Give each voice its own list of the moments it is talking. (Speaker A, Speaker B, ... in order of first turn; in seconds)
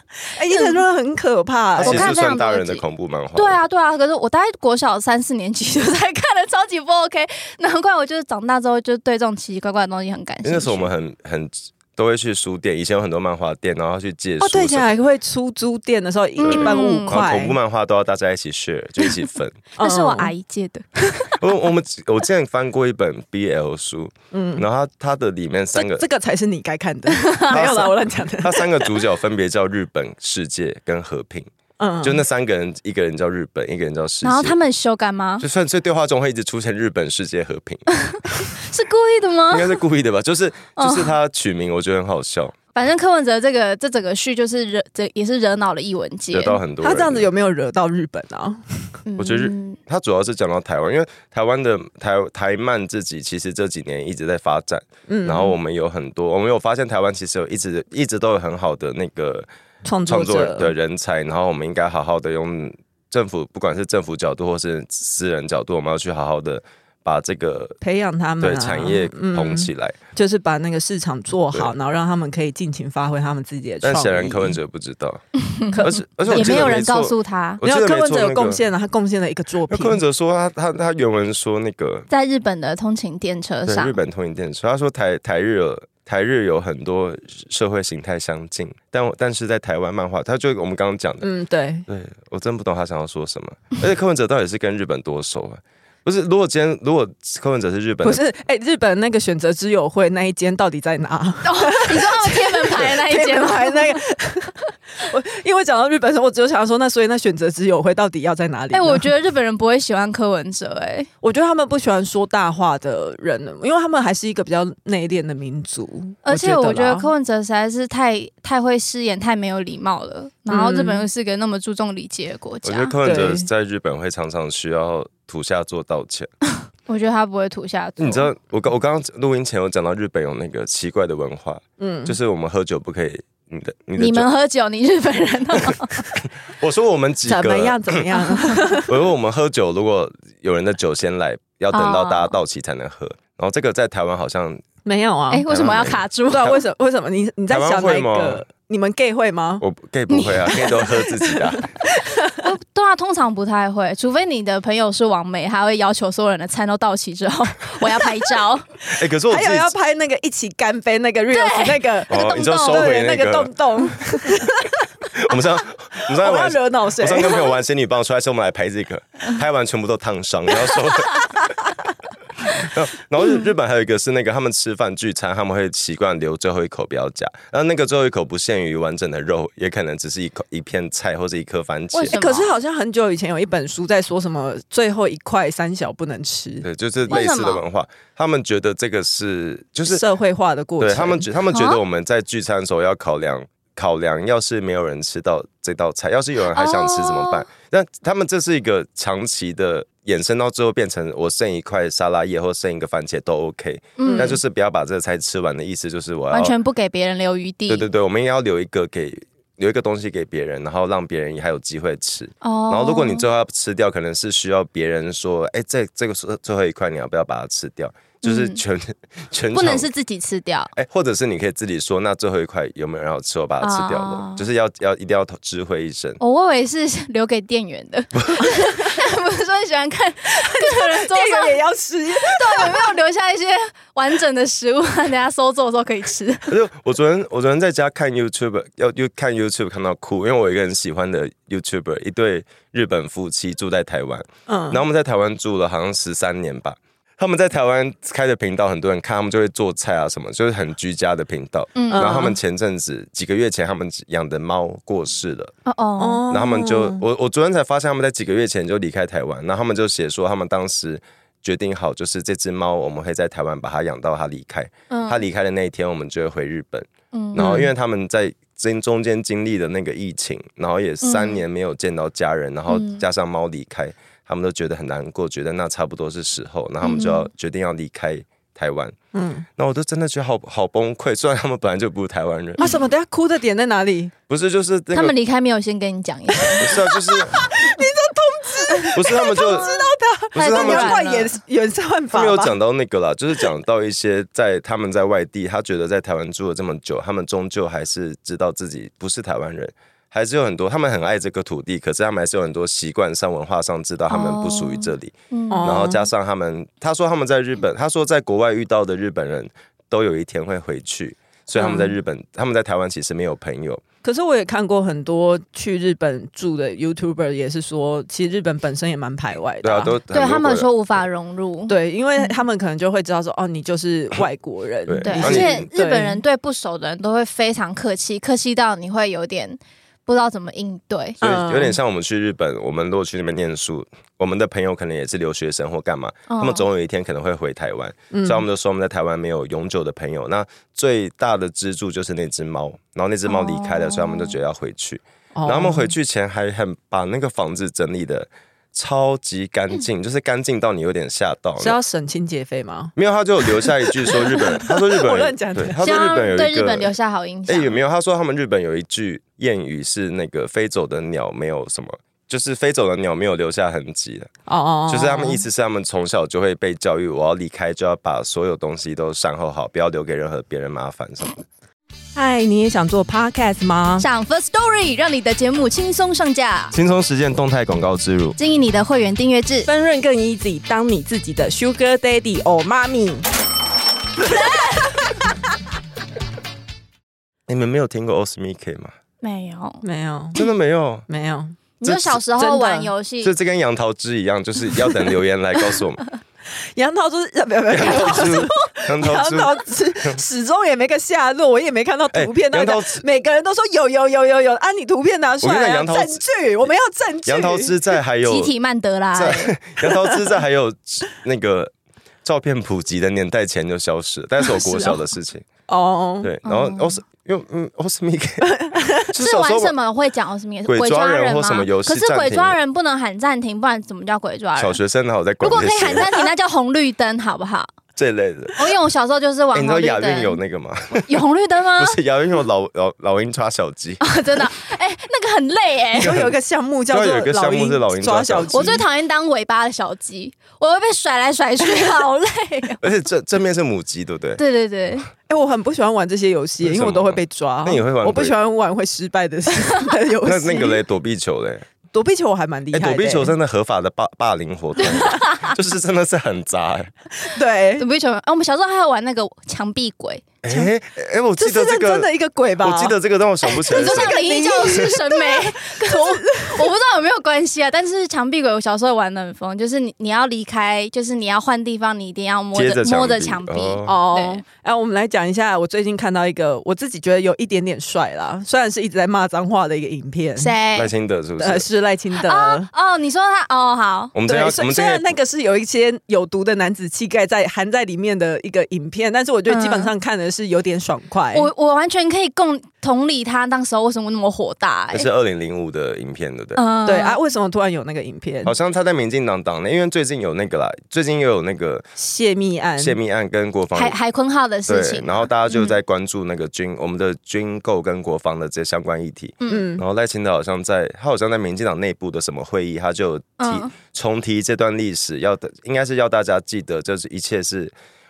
Speaker A: 0.3-2.1, 14.4-17.6, 19.8-20.3, 24.3-24.7, 25.8-28.8, 31.8-32.2, 46.8-49.0, 55.1-55.6, 59.8-60.7, 67.8-74.6, 75.8-76.8, 77.6-80.0, 91.2-91.9, 98.0-109.1, 111.2-117.1, 120.5-121.0, 123.0-123.5, 131.8-132.2, 137.3-138.9, 144.8-145.4, 146.3-149.6, 150.6-152.4, 159.3-164.8, 166.1-167.5, 182.1-186.7, 189.9-191.3, 204.0-204.4, 228.5-228.9, 230.3-232.9, 244.5-244.8, 251.9-252.4, 256.0-257.0, 267.4-267.7, 279.1-279.5, 282.6-284.1, 286.5-292.6, 305.5-306.1, 311.6-311.9, 314.0-320.0, 321.7-326.2, 331.2-331.8, 338.1-338.4, 345.4-345.9, 351.6-355.8, 364.5-365.4, 372.1-374.1, 379.6-383.3, 389.8-390.4, 391.1-391.6, 392.4-392.9, 396.8-407.8, 415.7-416.3, 418.5-418.9, 436.0-438.8, 445.3-450.8, 451.9-453.3, 457.2-457.9, 461.4-462.9, 463.6-466.7, 473.9-480.6, 481.4-482.7, 484.3-491.5, 496.9-498.5, 502.0-503.0, 509.5-509.8
Speaker B: 0.5-0.8, 1.8-2.8, 3.4-10.9, 16.4-17.2, 19.8-21.4, 27.1-27.6, 34.2-35.5, 38.0-39.8, 40.8-41.1, 42.7-46.6, 49.1-49.8, 75.5-77.6, 82.1-84.0, 101.4-104.0, 108.7-111.1, 116.2-123.0, 126.9-128.3, 134.0-136.1, 141.7-142.3, 145.3-146.6, 150.1-150.7, 152.4-158.7, 161.3-162.9, 181.9-182.6, 187.1-187.6, 191.5-191.8, 196.5-197.4, 204.0-204.4, 206.3-207.9, 212.4-213.3, 218.2-218.6, 219.5-220.7, 223.6-224.4, 226.2-231.6, 232.2-236.5, 251.8-252.2, 255.7-256.2, 264.9-265.3, 267.1-267.6, 271.0-271.4, 272.7-273.0, 276.8-277.3, 284.9-286.7, 288.8-291.4, 304.1-305.8, 320.1-322.3, 325.0-331.2, 336.3-336.7, 343.3-344.4, 355.8-357.8, 374.0-376.8, 378.4-379.7, 384.3-384.6, 389.2-389.8, 391.8-393.3, 397.9-398.3, 408.2-409.6, 414.5-415.0, 416.4-417.0, 419.2-424.8, 425.4-427.7, 428.6-430.4, 431.1-432.0, 434.0-436.2, 438.5-442.8, 444.4-445.1, 454.8-455.5, 457.8-460.3, 463.7-474.4, 480.4-480.9, 482.2-484.1, 489.5-489.9, 491.3-495.1, 496.6-497.2, 503.7-505.8, 509.4-509.7, 513.4-513.7
Speaker C: 1.8-3.6, 10.4-14.9, 16.4-19.6, 21.4-26.1, 27.5-31.5, 32.0-34.6, 35.4-37.9, 39.5-42.6, 46.3-47.3, 49.2-59.5, 60.1-67.8, 68.4-70.0, 73.8-75.2, 75.8-78.6, 79.7-82.1, 83.7-91.3, 91.9-98.2, 122.6-126.3, 128.0-134.3, 136.5-138.1, 138.8-144.7, 145.5-146.5, 147.5-148.4, 149.6-151.7, 158.9-159.7, 162.1-164.0, 165.1-171.5, 172.4-182.2, 186.6-190.0, 190.8-206.6, 207.7-219.9, 220.7-226.2, 228.2-228.4, 236.5-255.5, 256.3-279.0, 279.6-282.7, 284.3-285.1, 286.6-287.5, 288.9-289.8, 290.3-291.0, 292.1-313.8, 319.6-320.7, 324.9-325.7, 331.2-351.8, 353.0-356.9, 357.5-364.3, 364.9-371.4, 376.7-378.4, 387.5-388.9, 390.4-391.1, 391.8-392.2, 393.2-396.0, 397.7-400.2, 402.1-403.0, 405.4-406.2, 407.2-408.5, 409.1-411.7, 412.2-415.5, 416.2-419.7, 420.7-422.6, 424.6-426.1, 428.0-428.6, 429.5-431.2, 431.8-434.0, 436.0-436.4, 436.9-438.6, 442.8-444.4, 446.6-448.3, 450.2-451.7, 452.7-456.9, 460.4-462.1, 462.6-464.9, 472.5-474.0, 480.8-481.7, 484.1-485.1, 494.9-496.6, 498.4-501.9, 502.8-504.0, 504.7-517.7